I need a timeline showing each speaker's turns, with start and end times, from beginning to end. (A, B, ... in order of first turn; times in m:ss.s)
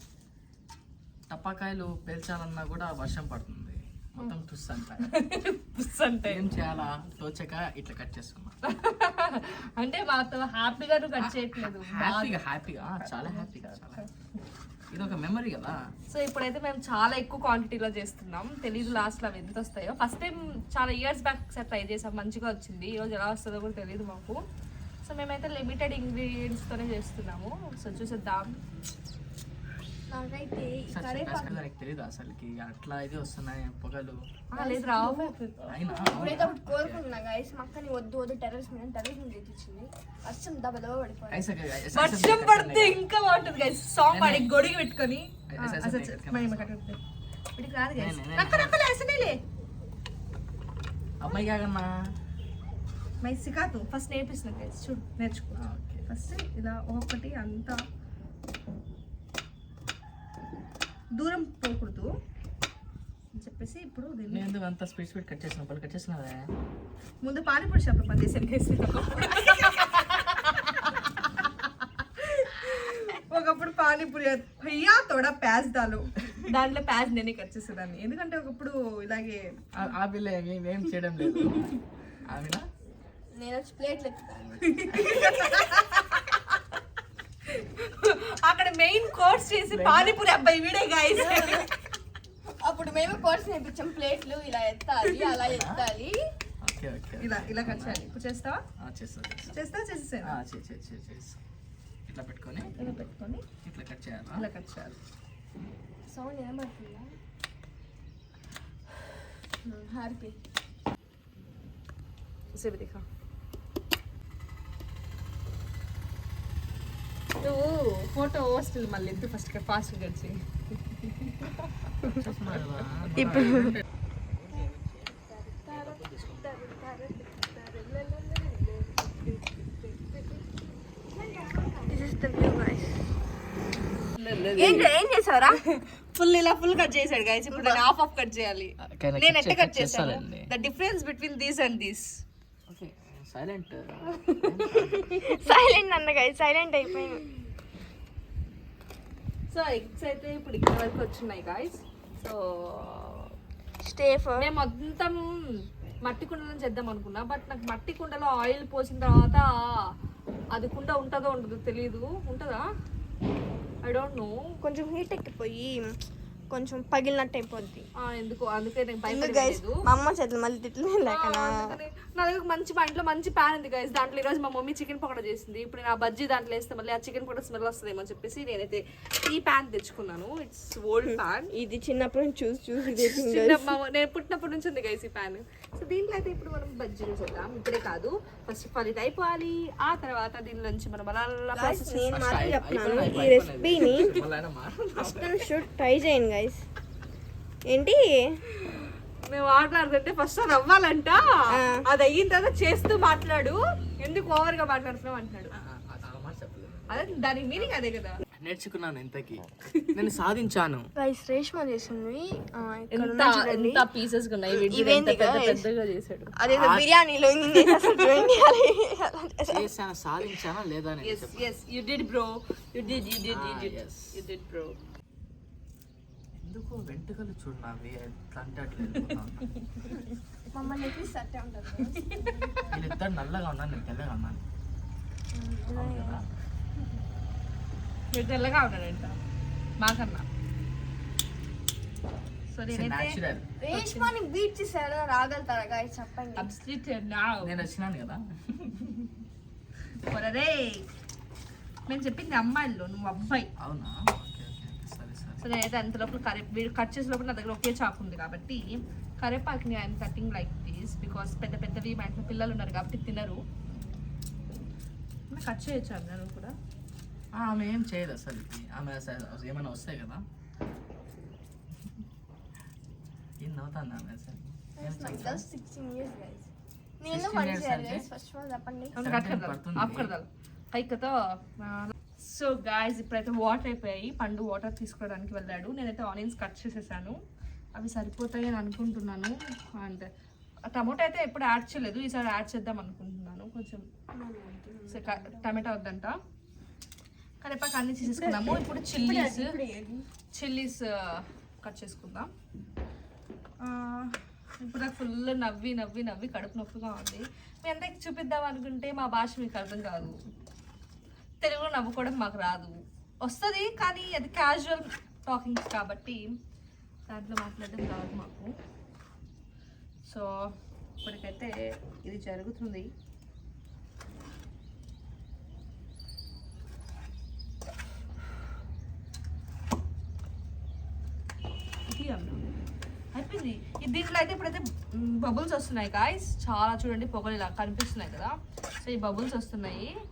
0:01.3-0:05.1 A
0:05.0-0:06.5 B
0:06.3-0:08.5 A
0:08.7-0:12.4 B
0:11.2-0:14.0 A
0:13.0-0:14.1 B
0:14.9-0:15.8 A
0:16.1-0:24.4 B
0:18.8-0:19.1 A
0:25.0-0:28.6 B
0:30.1-0:31.6 C
0:30.9-0:34.2 A
0:34.5-0:35.3 B
0:34.5-0:41.4 C
0:35.7-0:37.0 A
0:36.1-0:36.5 B
0:41.3-0:43.0 A
0:41.9-0:47.0 B
0:44.1-0:44.5 A
0:45.5-0:46.7 A
0:47.6-0:49.4 B
0:48.0-0:48.8 A
0:51.2-0:51.9 A
0:53.2-0:57.8 B
0:55.6-0:56.0 A
1:01.2-1:02.1 B
1:03.4-1:04.5 B
1:04.3-1:06.5 A
1:07.2-1:19.4 B
1:19.8-1:22.6 A
1:23.4-1:25.7 C
1:24.6-1:26.6 B
1:27.4-1:31.8 B
1:29.7-1:30.2 A
1:31.2-1:31.7 C
1:32.6-1:36.2 C
1:35.3-1:35.8 A
1:36.6-1:38.0 A
1:37.2-1:38.6 B
1:38.8-1:39.5 A
1:39.5-1:40.4 B
1:40.2-1:41.4 A
1:42.1-1:42.8 A
1:42.6-1:43.4 B
1:43.6-1:44.4 A
1:44.4-1:45.0 B
1:46.0-1:47.1 C
1:49.7-1:50.4 C
1:52.5-1:53.0 B
1:57.4-2:01.7 B
2:02.0-2:05.1 A
2:03.1-2:03.8 C
2:05.3-2:05.8 C
2:05.7-2:06.6 A
2:06.7-2:07.1 C
2:06.8-2:10.4 B
2:11.1-2:13.0 C
2:14.2-2:14.9 B
2:14.6-2:15.6 C
2:15.5-2:22.2 B
2:17.5-2:17.8 C
2:18.8-2:20.5 A
2:22.7-2:25.2 A
2:25.2-2:27.2 C
2:29.5-2:33.3 B
2:33.8-2:34.5 C
2:34.4-2:35.5 B
2:36.0-2:39.4 B
2:40.5-2:42.6 B
2:43.8-2:44.4 B
2:44.6-2:45.9 C
2:46.5-2:47.9 C
2:48.0-2:49.8 B
2:49.1-2:51.7 C
2:51.0-3:01.5 B
3:01.1-3:03.8 C
3:03.0-3:12.2 B
3:11.5-3:14.1 C
3:12.1-3:15.4 A
3:15.0-3:16.6 C
3:17.7-3:18.4 C
3:18.6-3:21.2 B
3:21.5-3:21.8 C
3:21.7-3:25.5 B
3:25.6-3:27.7 A
3:26.9-3:28.2 B
3:28.4-3:30.9 A
3:31.0-3:33.9 C
3:32.9-3:36.3 B
3:34.7-3:35.6 C
3:36.4-3:39.7 C
3:36.5-3:36.8 A
3:39.5-3:41.5 A
3:41.0-3:44.7 B
3:43.3-3:44.1 A
3:46.4-3:49.5 A
3:49.6-3:50.1 B
3:50.5-3:52.9 C
3:51.8-3:52.2 B
3:52.7-3:54.4 A
3:55.3-3:56.2 C
3:55.7-3:56.2 A
3:58.1-3:59.2 B
3:59.8-4:00.3 B
4:02.5-4:04.1 B
4:02.7-4:03.5 A
4:03.6-4:06.5 C
4:06.4-4:07.6 B
4:07.4-4:08.9 A
4:10.1-4:10.9 B
4:11.9-4:13.5 B
4:13.6-4:15.4 A
4:15.4-4:23.4 B
4:25.3-4:26.5 B
4:27.3-4:30.2 A
4:33.4-4:35.4 A
4:34.8-4:36.5 C
4:37.0-4:38.9 C
4:37.1-4:38.1 A
4:39.0-4:47.1 B
4:39.0-4:40.1 A
4:47.7-4:50.1 B
4:50.7-4:53.8 B
4:54.1-4:55.6 C
4:54.9-4:56.2 B
4:57.4-4:59.6 B
4:58.0-5:00.0 C
5:00.3-5:02.3 B
5:03.6-5:10.2 B
5:11.4-5:16.3 B
5:17.1-5:18.5 B
5:20.1-5:20.5 B
5:21.0-5:22.9 B
5:31.9-5:32.4 B
5:33.1-5:39.9 B